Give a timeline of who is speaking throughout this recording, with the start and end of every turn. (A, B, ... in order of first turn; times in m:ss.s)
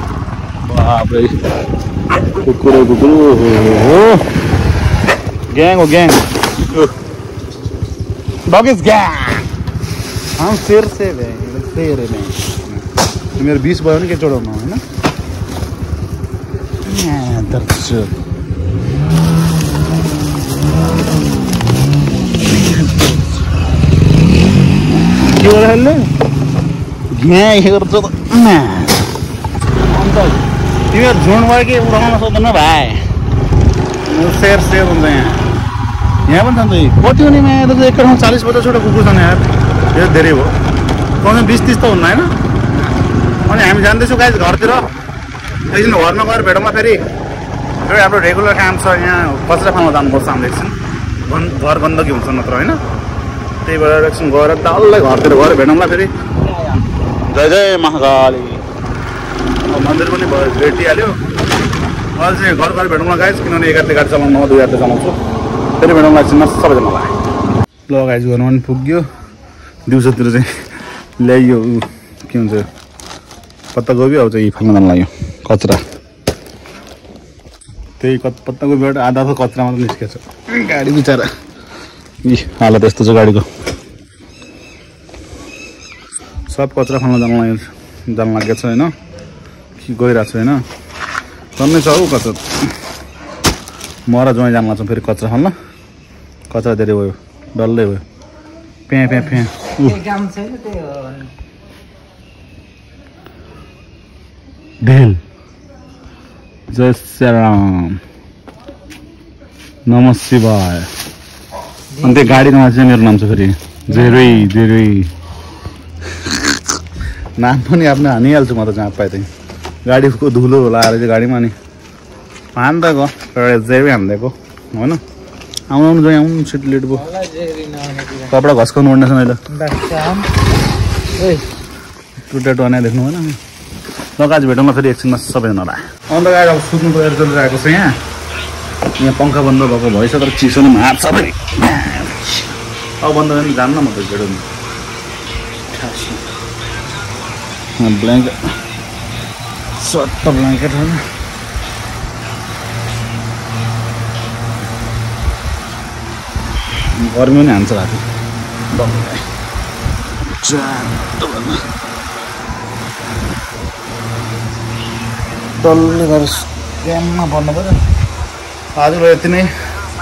0:00.6-0:01.4 A
0:02.2-0:04.3 A
0:05.5-0:06.9 A
0:08.5-0:09.5 A
0:10.4-0:12.8 A
0:13.4-0:14.8 A
0:16.8-0:18.2 A
0:22.4-0:23.4 A
0:25.1-0:26.1 A
0:27.1-0:29.1 A
0:29.9-0:33.0 A
0:34.1-0:35.5 A
0:36.3-0:40.5 A
0:41.2-0:42.3 A
0:43.4-0:44.9 A
0:45.7-0:47.0 A
0:47.8-0:50.8 A
0:51.3-0:52.8 A
0:53.6-0:58.6 A
0:59.7-1:01.2 A
1:02.2-1:05.2 A
1:05.8-1:07.2 A
1:07.9-1:09.0 A
1:09.9-1:10.5 A
1:11.2-1:12.7 A
1:13.7-1:15.8 A
1:18.0-1:21.3 A
1:22.2-1:23.5 A
1:26.5-1:28.9 A
1:29.8-1:30.6 A
1:31.6-1:32.5 A
1:34.1-1:35.5 A
1:36.5-1:38.0 A
1:38.9-1:40.0 A
1:39.8-1:41.3 B
1:44.8-1:45.2 A
1:46.7-1:48.0 A
1:49.9-1:50.9 A
1:52.0-1:55.1 A
1:56.1-1:56.8 A
1:57.4-1:59.3 A
1:59.9-2:01.5 A
2:02.6-2:05.0 A
2:05.7-2:07.1 A
2:07.1-2:08.3 B
2:08.3-2:09.4 A
2:09.5-2:10.3 B
2:11.2-2:11.4 B
2:12.2-2:13.4 A
2:14.2-2:18.0 A
2:19.0-2:24.5 A
2:25.7-2:26.2 A
2:27.8-2:28.4 A
2:29.8-2:31.0 A
2:36.9-2:38.0 A
2:38.7-2:39.3 A
2:40.3-2:41.6 A
2:45.6-2:47.8 A
2:48.8-2:49.5 A